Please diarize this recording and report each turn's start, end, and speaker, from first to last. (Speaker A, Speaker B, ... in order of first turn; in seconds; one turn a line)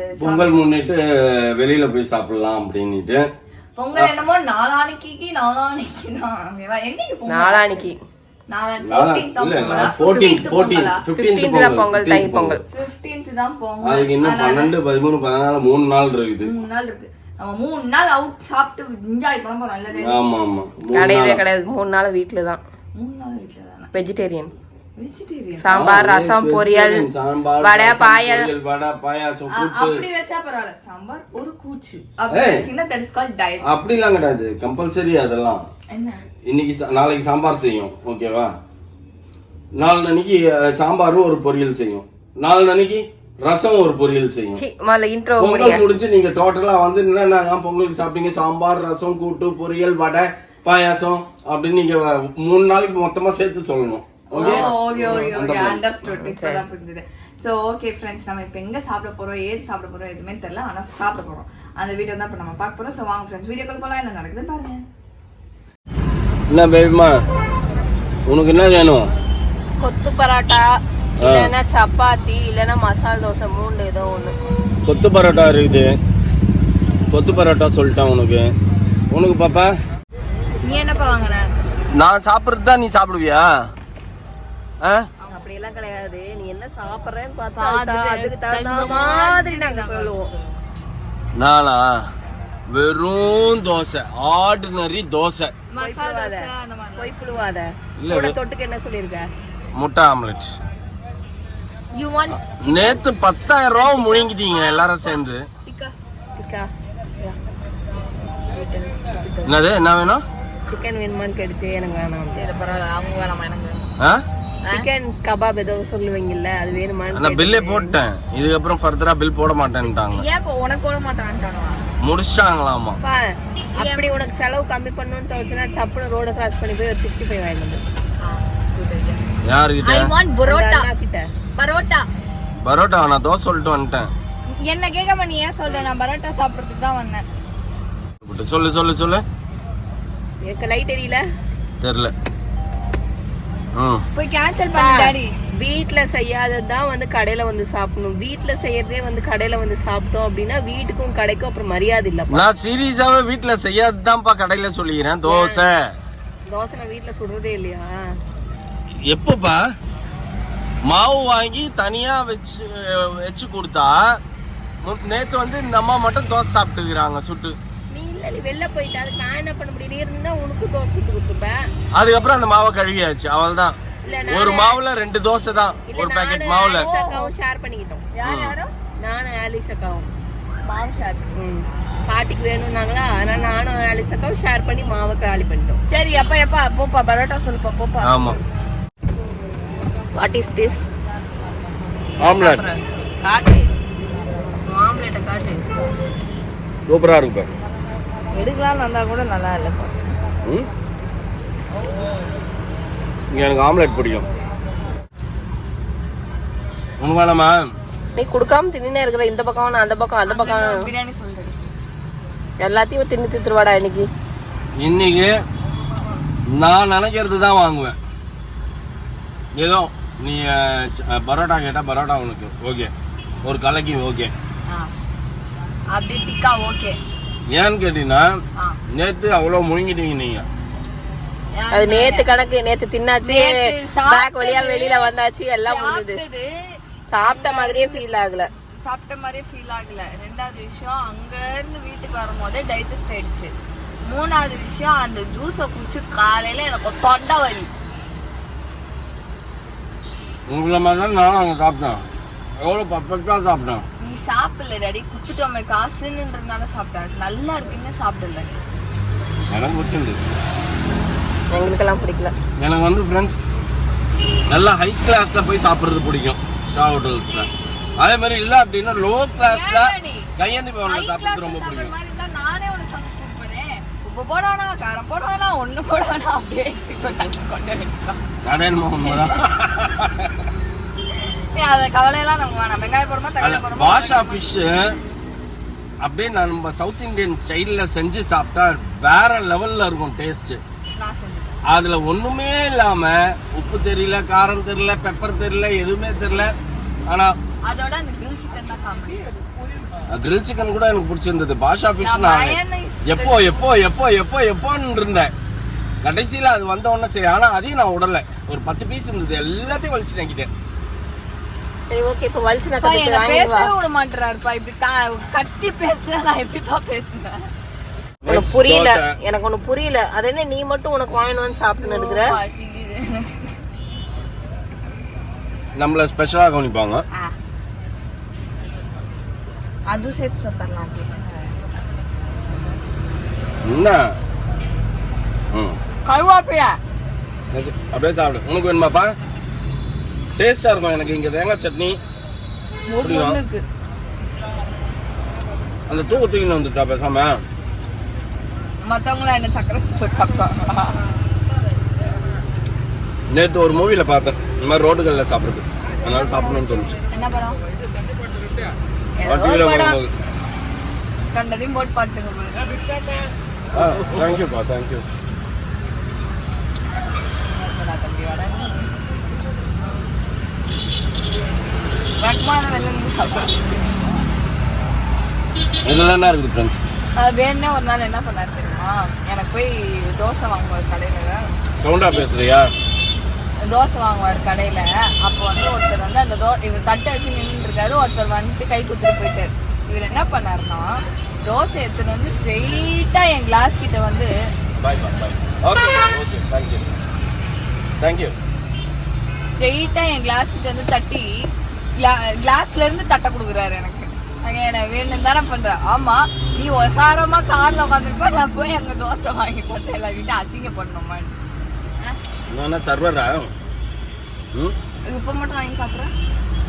Speaker A: 0.2-0.6
Speaker B: 0.2-3.3
Speaker A: 3.8-7.9
Speaker C: 7.3-8.0
Speaker A: 8.5-11.0
Speaker B: 8.9-12.6
Speaker C: 9.7-10.4
Speaker C: 11.2-12.6
Speaker A: 12.7-14.7
Speaker B: 13.8-16.5
Speaker A: 16.4-20.2
Speaker B: 19.9-21.4
Speaker C: 20.9-22.6
Speaker A: 23.0-24.0
Speaker C: 23.9-24.5
Speaker A: 25.0-25.9
Speaker C: 25.6-27.1
Speaker B: 25.7-30.0
Speaker C: 27.6-28.5
Speaker A: 29.5-33.6
Speaker B: 32.3-32.6
Speaker B: 33.7-35.6
Speaker A: 35.9-36.2
Speaker B: 36.5-38.5
Speaker B: 39.8-44.6
Speaker C: 44.5-45.8
Speaker B: 45.4-55.9
Speaker A: 54.3-64.8
Speaker C: 54.4-55.3
Speaker C: 56.2-56.6
Speaker B: 66.5-67.2
Speaker B: 68.3-69.1
Speaker C: 69.8-74.4
Speaker B: 71.2-71.5
Speaker B: 74.9-76.0
Speaker B: 77.1-78.5
Speaker B: 79.1-79.7
Speaker A: 80.6-81.5
Speaker B: 81.9-83.5
Speaker B: 84.8-85.1
Speaker C: 85.3-90.3
Speaker A: 87.6-90.5
Speaker B: 91.4-92.0
Speaker B: 92.7-95.5
Speaker A: 95.7-97.4
Speaker C: 95.8-99.3
Speaker B: 98.0-98.4
Speaker B: 99.8-100.6
Speaker A: 102.0-103.0
Speaker B: 102.6-105.5
Speaker A: 103.7-105.9
Speaker C: 106.4-106.7
Speaker C: 108.5-109.6
Speaker B: 109.5-110.2
Speaker C: 110.7-112.4
Speaker A: 112.3-113.9
Speaker C: 114.7-118.0
Speaker B: 117.1-120.2
Speaker A: 120.1-121.8
Speaker B: 122.0-123.0
Speaker A: 123.7-124.1
Speaker C: 123.8-127.8
Speaker A: 128.2-129.2
Speaker B: 129.4-130.1
Speaker A: 129.8-130.9
Speaker C: 130.5-131.3
Speaker A: 131.6-132.1
Speaker B: 132.6-134.1
Speaker A: 134.6-137.3
Speaker B: 138.2-139.2
Speaker C: 140.4-141.2
Speaker B: 141.8-142.1
Speaker B: 143.8-144.1
Speaker A: 144.2-145.3
Speaker C: 144.8-152.4
Speaker B: 152.3-155.9
Speaker C: 155.2-155.6
Speaker C: 156.5-157.9
Speaker B: 159.1-159.6
Speaker B: 160.9-164.2
Speaker B: 164.8-167.6
Speaker C: 167.9-171.6
Speaker B: 171.9-176.9
Speaker C: 174.0-174.8
Speaker C: 175.9-178.0
Speaker A: 176.6-177.3
Speaker A: 178.2-178.7
Speaker B: 178.2-178.6
Speaker C: 179.0-180.1
Speaker A: 180.7-181.4
Speaker C: 181.4-185.8
Speaker A: 185.9-188.3
Speaker B: 188.0-188.4
Speaker C: 190.2-190.8
Speaker B: 192.2-192.7
Speaker A: 192.3-192.8
Speaker C: 193.2-193.7
Speaker C: 194.7-195.7
Speaker B: 196.9-197.5
Speaker A: 198.3-200.2
Speaker B: 203.3-204.3
Speaker B: 207.0-207.6
Speaker C: 208.2-210.8
Speaker A: 210.3-211.6
Speaker C: 212.6-214.1
Speaker B: 214.8-215.3
Speaker B: 216.6-217.9
Speaker B: 219.6-222.9
Speaker B: 223.4-224.3
Speaker A: 225.9-227.0
Speaker B: 227.5-228.4
Speaker B: 228.9-230.5
Speaker A: 231.6-232.3
Speaker C: 231.7-236.2
Speaker A: 233.2-236.5
Speaker C: 237.1-238.5
Speaker A: 237.2-238.0
Speaker A: 238.8-243.5
Speaker A: 244.1-247.7
Speaker B: 250.5-252.0
Speaker B: 252.6-253.8
Speaker A: 254.0-258.5
Speaker B: 259.5-260.2
Speaker C: 261.5-262.3
Speaker B: 262.6-263.4
Speaker B: 264.5-271.9
Speaker A: 269.5-270.3
Speaker A: 270.9-278.2
Speaker B: 278.4-280.4
Speaker A: 279.0-279.6
Speaker A: 281.5-284.4
Speaker B: 283.4-284.9
Speaker B: 286.0-290.6
Speaker A: 291.0-291.6
Speaker B: 291.7-296.5
Speaker B: 297.1-297.3
Speaker A: 297.7-299.4
Speaker B: 300.1-305.3
Speaker A: 302.0-303.7
Speaker B: 306.0-310.5
Speaker C: 311.9-313.7
Speaker A: 312.8-317.4
Speaker B: 318.2-319.1
Speaker C: 318.3-322.4
Speaker A: 321.8-323.5
Speaker B: 325.8-327.0
Speaker A: 329.9-331.7
Speaker B: 333.7-334.0
Speaker B: 335.5-335.8
Speaker A: 336.1-336.8
Speaker B: 337.5-339.1
Speaker B: 340.4-342.0
Speaker A: 342.9-343.6
Speaker B: 343.0-343.4
Speaker B: 345.9-347.4
Speaker A: 348.8-351.0
Speaker B: 353.3-356.9
Speaker A: 357.1-357.6
Speaker A: 359.2-360.0
Speaker B: 359.3-360.1
Speaker A: 361.3-362.8
Speaker B: 363.7-365.1
Speaker A: 367.5-368.9
Speaker A: 372.2-373.9
Speaker B: 375.9-376.8
Speaker A: 377.2-381.4
Speaker B: 381.8-382.7
Speaker A: 383.6-390.9
Speaker A: 391.4-394.3
Speaker B: 394.8-396.9
Speaker B: 398.0-398.4
Speaker A: 399.5-401.3
Speaker A: 402.0-411.4
Speaker B: 412.5-413.5
Speaker A: 415.1-416.1